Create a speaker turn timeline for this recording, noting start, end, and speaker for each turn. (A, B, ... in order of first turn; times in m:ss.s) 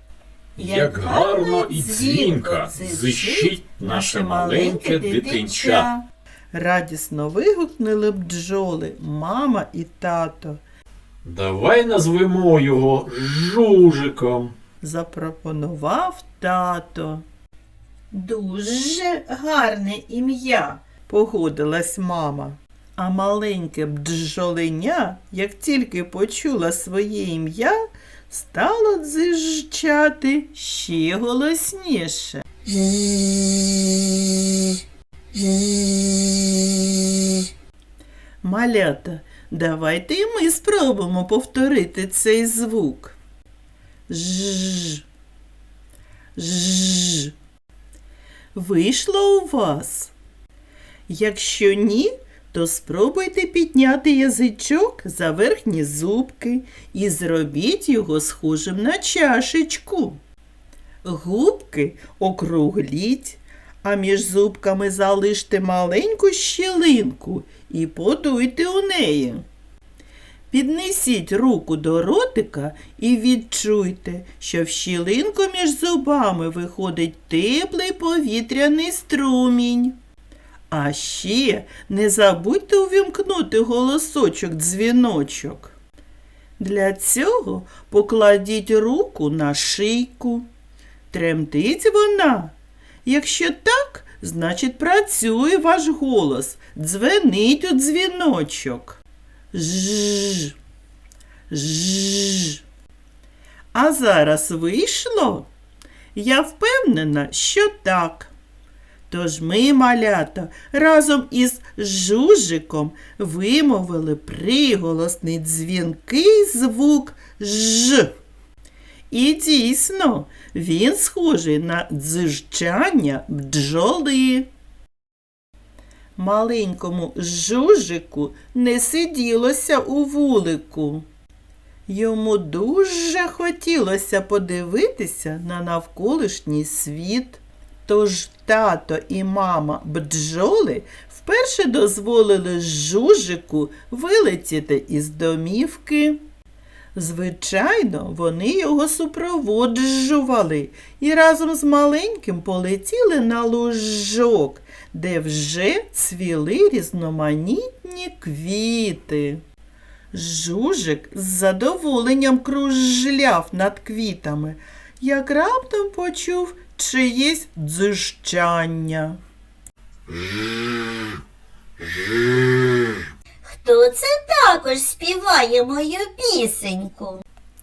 0:00.6-0:05.9 A
0:00.6-0:10.6 B
0:11.2-0:14.5 A
0:14.8-0:17.2 B
0:18.1-0:27.8 B
0:28.3-0:32.4 B
0:32.6-0:34.8 C
0:35.3-0:36.7 C
0:38.4-0:43.1 B
0:44.1-0:45.0 B
0:46.4-0:47.3 B
0:48.5-0:50.1 B
0:51.1-1:00.2 B
1:01.0-1:09.4 B
1:10.5-1:20.0 B
1:20.7-1:25.7 B
1:26.6-1:30.5 B
1:31.1-1:39.0 B
1:39.5-1:40.6 B
1:41.5-1:42.6 B
1:43.7-1:45.5 B
1:46.1-1:48.3 B
1:49.1-1:58.1 B
1:59.1-2:04.5 B
2:06.2-2:11.0 B
2:11.9-2:26.2 B
2:26.9-2:39.4 B
2:40.1-2:49.2 B
2:50.1-2:51.2 A
2:51.8-2:53.0 A
2:53.4-2:57.2 C